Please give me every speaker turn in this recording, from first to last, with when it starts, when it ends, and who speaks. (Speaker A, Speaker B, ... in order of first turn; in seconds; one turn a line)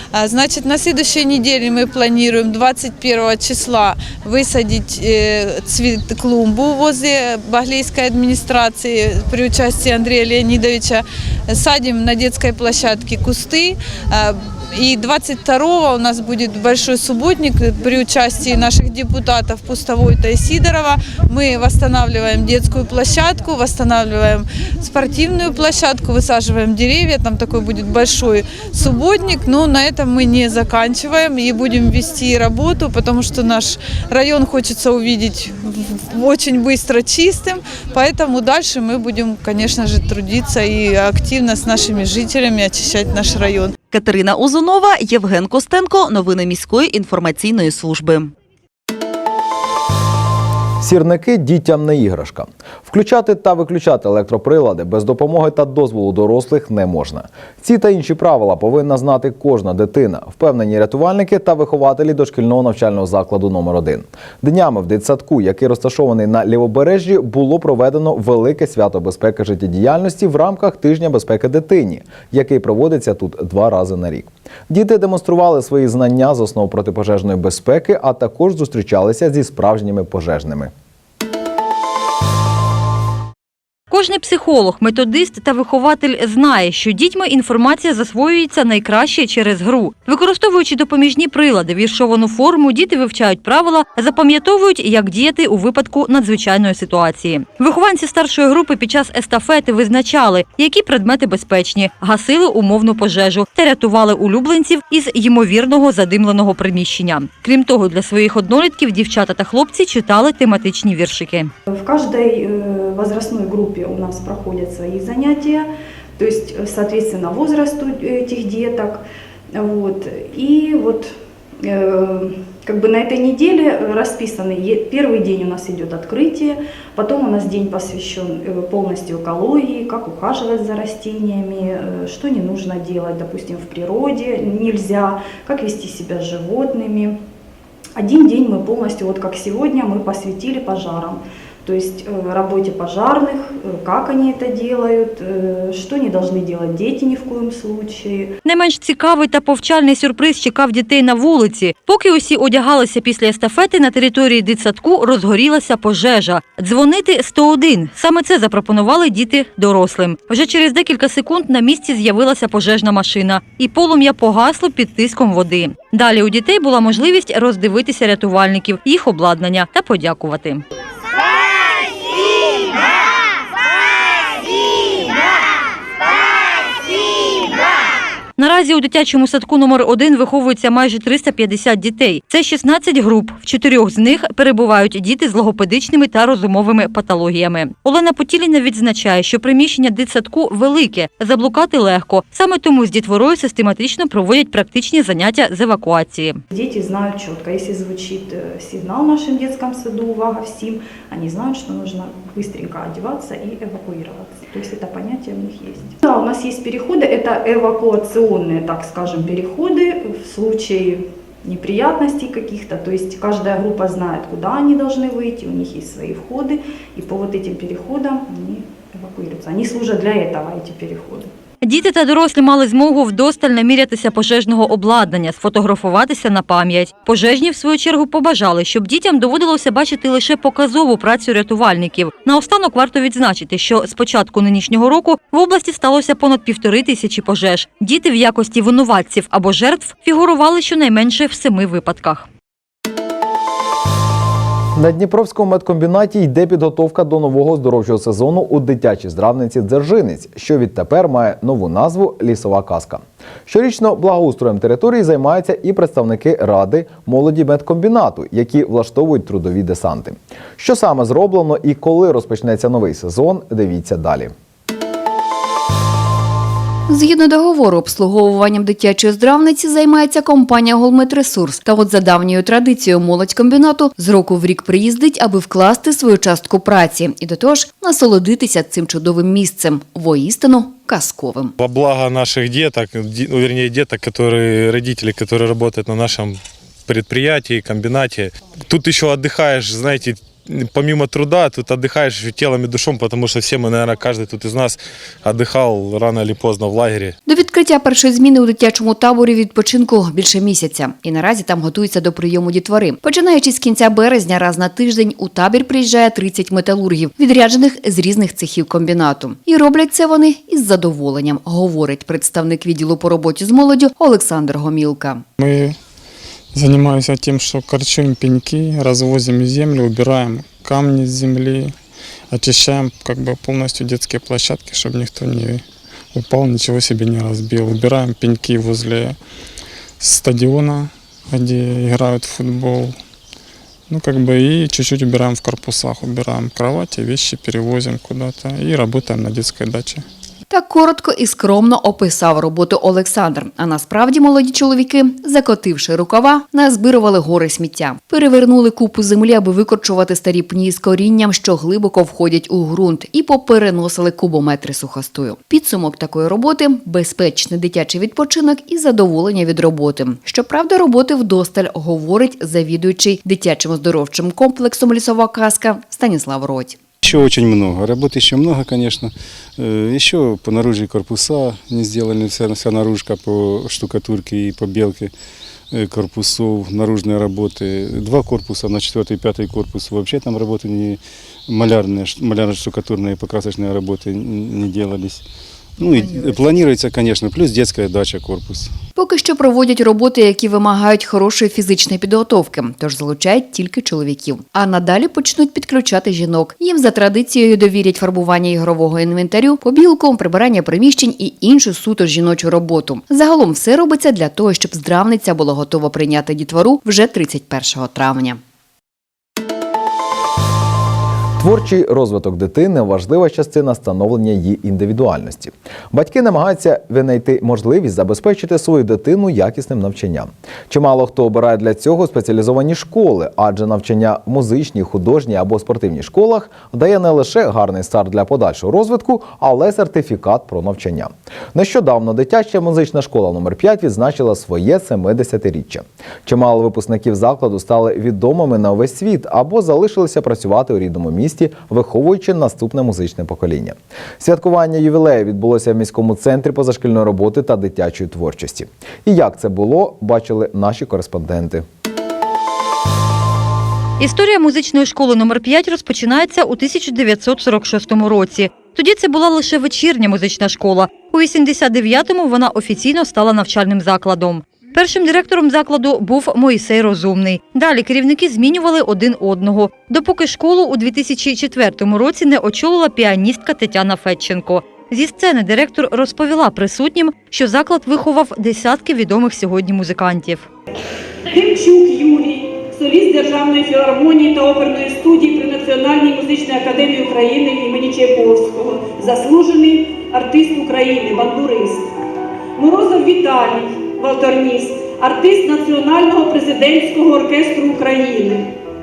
Speaker A: 0.1-43.7
Speaker B: 43.9-48.3
Speaker C: 50.8-80.7
Speaker D: 83.9-111.5
Speaker E: 111.7-119.0
Speaker E: 119.5-137.2
Speaker E: 137.9-148.3
Speaker D: 148.4-170.6
Speaker D: 178.4-196.4
Speaker E: 196.5-221.3
Speaker D: 221.6-242.3
Speaker C: 244.8-264.3
Speaker F: 266.9-281.5
Speaker G: 281.6-297.2
Speaker F: 297.2-315.2
Speaker H: 315.4-315.8
Speaker H: 316.5-321.8
Speaker H: 322.3-329.2
Speaker H: 330.0-333.0
Speaker H: 333.9-340.0
Speaker F: 340.5-366.8
Speaker I: 367.0-375.1
Speaker I: 375.7-385.2
Speaker I: 385.8-388.7
Speaker F: 385.9-386.3
Speaker F: 388.9-408.4
Speaker C: 411.4-451.6
Speaker D: 454.0-480.5
Speaker J: 481.3-491.9
Speaker J: 492.6-498.5